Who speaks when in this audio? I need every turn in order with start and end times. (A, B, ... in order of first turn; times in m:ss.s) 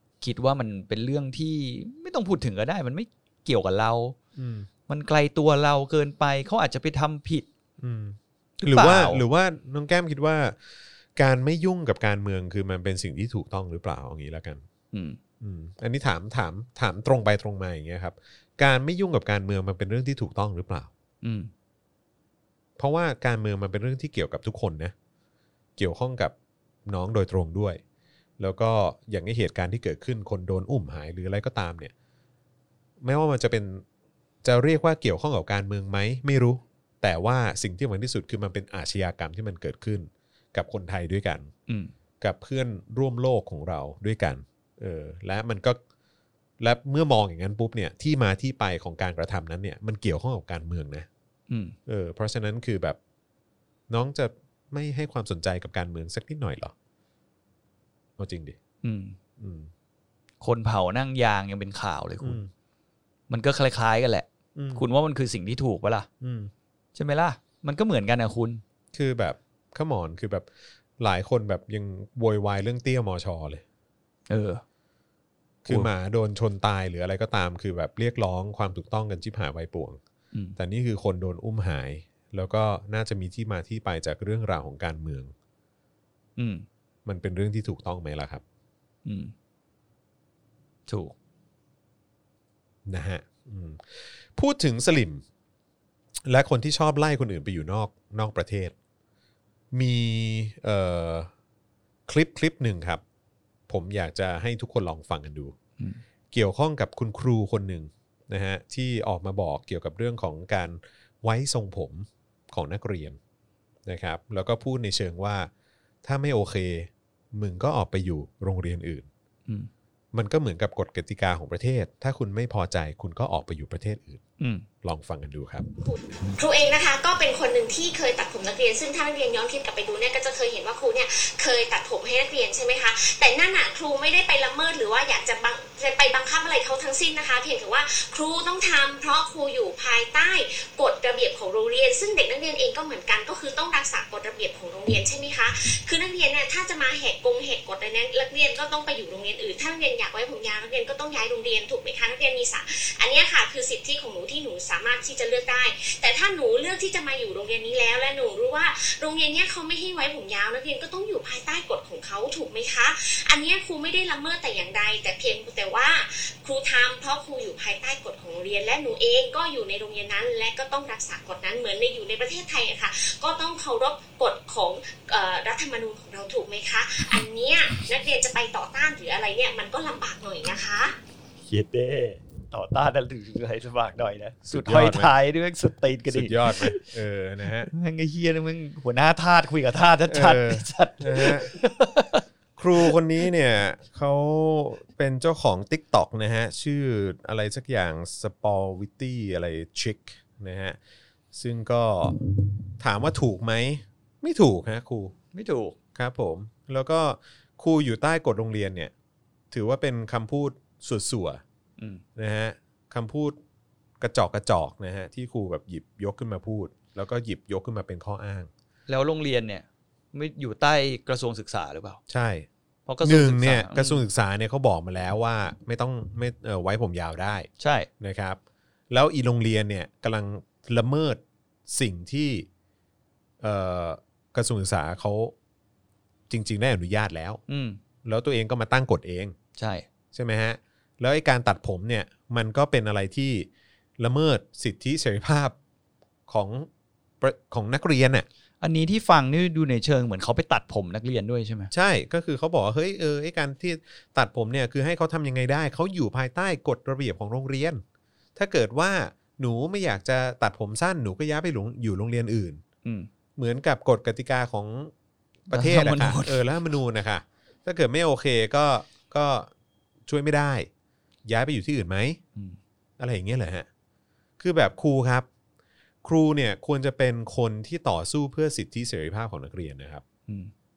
0:00.2-0:04.2 A
0:04.4-0:04.7 B
0:04.9-0:07.4 A
0:07.8-0:10.6 B
0:08.6-0:09.2 A
0:11.2-0:14.6 B
0:14.9-0:15.2 A
0:15.4-0:20.9 B
0:21.2-0:21.5 A
0:22.8-0:24.9 B
0:25.8-0:26.3 B
0:26.8-0:27.8 B
0:28.4-0:31.9 B
0:33.0-0:33.8 B
0:34.4-0:41.5 B
0:42.2-0:45.8 B
0:46.6-0:51.1 B
0:51.5-0:51.7 A
0:51.9-0:53.0 B
0:53.9-0:56.7 B
0:58.2-0:58.6 B
0:58.8-0:59.2 A
0:59.4-0:59.7 B
1:00.4-1:02.4 A
1:02.2-1:02.5 B
1:03.3-1:06.1 A
1:04.5-1:04.8 B
1:06.2-1:06.5 B
1:06.9-1:08.6 A
1:08.9-1:10.5 B
1:11.0-1:13.6 B
1:14.3-1:14.6 A
1:15.6-1:20.0 B
1:20.6-1:25.3 B
1:26.4-1:26.6 A
1:27.0-1:28.4 B
1:29.0-1:29.3 A
1:30.9-1:31.1 A
1:32.8-1:35.2 B
1:36.2-1:38.7 B
1:39.7-1:41.3 B
1:42.1-1:43.0 B
1:43.7-1:45.5 B
1:46.3-1:53.2 B
1:53.8-1:55.5 B
1:56.0-1:59.1 B
2:00.1-2:04.2 B
2:04.4-2:04.6 A
2:04.8-2:05.6 B
2:05.8-3:00.9 C
3:01.4-3:06.8 A
3:04.4-3:05.1 B
3:06.1-3:07.7 B
3:07.6-3:12.2 A
3:10.1-3:11.5 B
3:12.6-3:20.8 B
3:21.3-3:22.2 B
3:22.8-3:25.1 B
3:25.3-3:25.8 A
3:25.9-3:28.9 B
3:29.5-3:31.4 B
3:31.8-3:32.0 A
3:32.2-3:33.4 B
3:34.0-3:38.5 B
3:38.9-3:42.0 A
3:42.1-3:42.5 B
3:42.9-3:44.0 A
3:43.0-3:47.5 B
3:47.6-3:47.9 A
3:48.0-3:48.4 B
3:48.9-3:52.5 B
3:53.4-3:55.3 B
3:56.3-3:57.4 B
3:57.5-3:57.8 A
3:58.0-3:59.3 B
3:59.6-3:59.8 A
4:00.1-4:03.5 B
4:04.0-4:05.6 B
4:06.3-4:06.7 B
4:07.2-4:08.2 B
4:08.6-4:11.7 A
4:11.7-4:17.8 B
4:18.4-4:22.6 B
4:23.4-4:24.9 B
4:25.5-4:26.4 A
4:25.5-4:29.5 B
4:30.1-4:30.7 B
4:31.2-4:32.2 B
4:33.0-4:33.6 B
4:34.4-4:35.3 B
4:36.0-4:40.0 B